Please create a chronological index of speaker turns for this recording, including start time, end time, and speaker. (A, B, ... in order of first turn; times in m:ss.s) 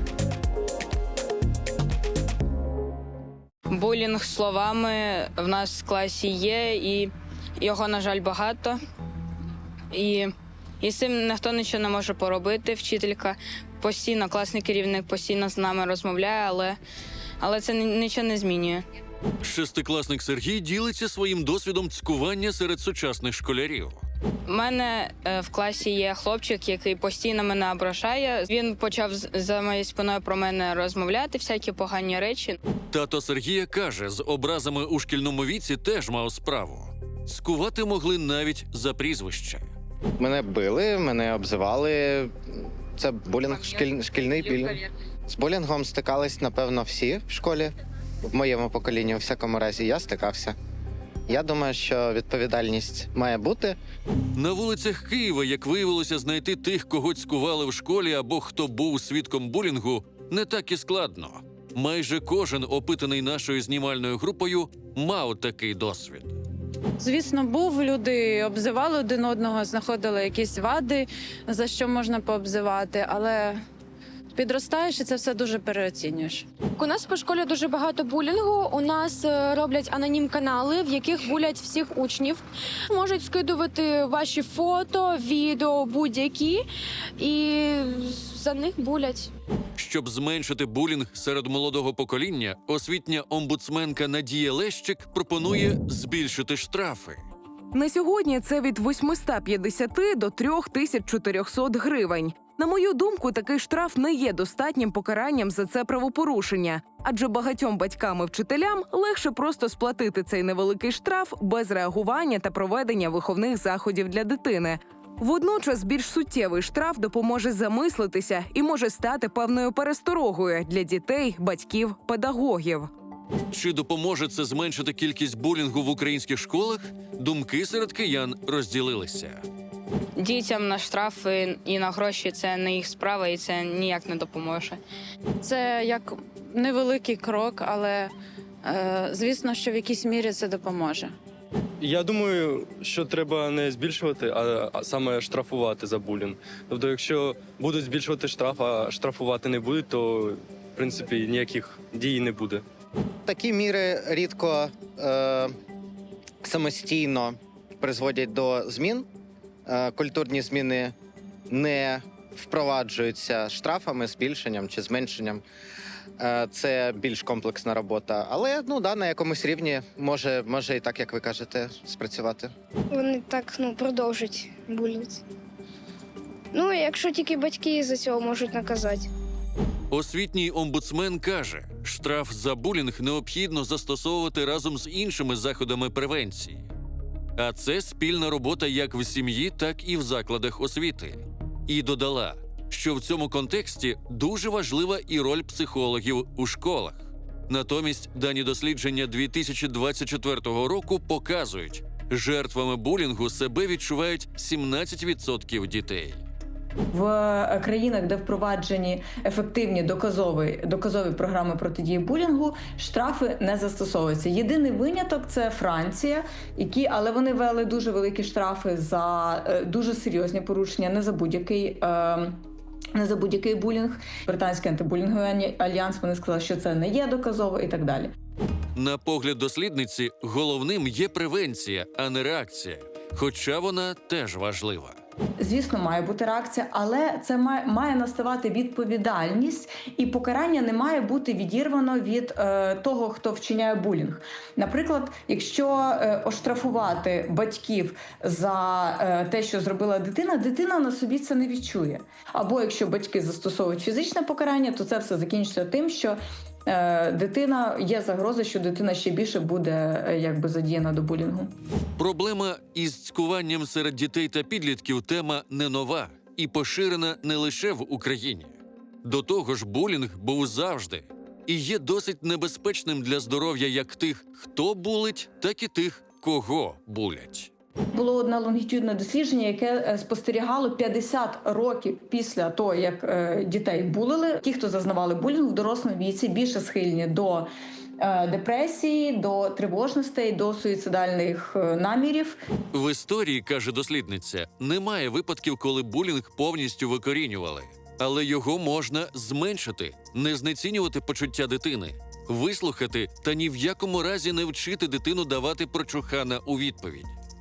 0:03.7-0:08.8 A
0:09.9-0:16.8 A
0:17.4-0:18.8 A
0:19.4-0:24.0 B
0:24.5-0:32.6 A
0:32.9-0:39.6 B
0:40.2-0:47.7 C
0:48.2-0:50.6 C
0:51.3-0:53.8 C
0:54.4-1:06.4 B
1:07.0-1:13.6 D
1:14.3-1:16.5 D
1:16.8-1:26.6 E
1:27.2-1:29.3 E
1:29.8-1:37.2 B
1:37.7-2:02.9 F
2:03.5-2:09.4 B
2:10.2-2:14.8 A
2:15.4-2:18.1 D
2:18.6-2:21.2 D
2:21.8-2:32.6 G
2:33.3-2:35.5 C
2:36.4-2:39.1 C
2:39.7-2:40.9 C
2:41.5-2:45.4 C
2:46.2-2:52.5 C
2:52.9-2:55.2 H
2:56.5-2:59.1 H
2:59.9-3:06.7 B
3:07.4-3:26.2 B
3:26.9-3:42.4 I
3:43.0-3:48.1 I
3:48.8-3:55.0 B
3:55.4-4:21.5 I
4:22.0-4:37.5 B
4:37.9-4:47.5 I
4:48.0-4:52.4 I
4:52.7-5:07.1 B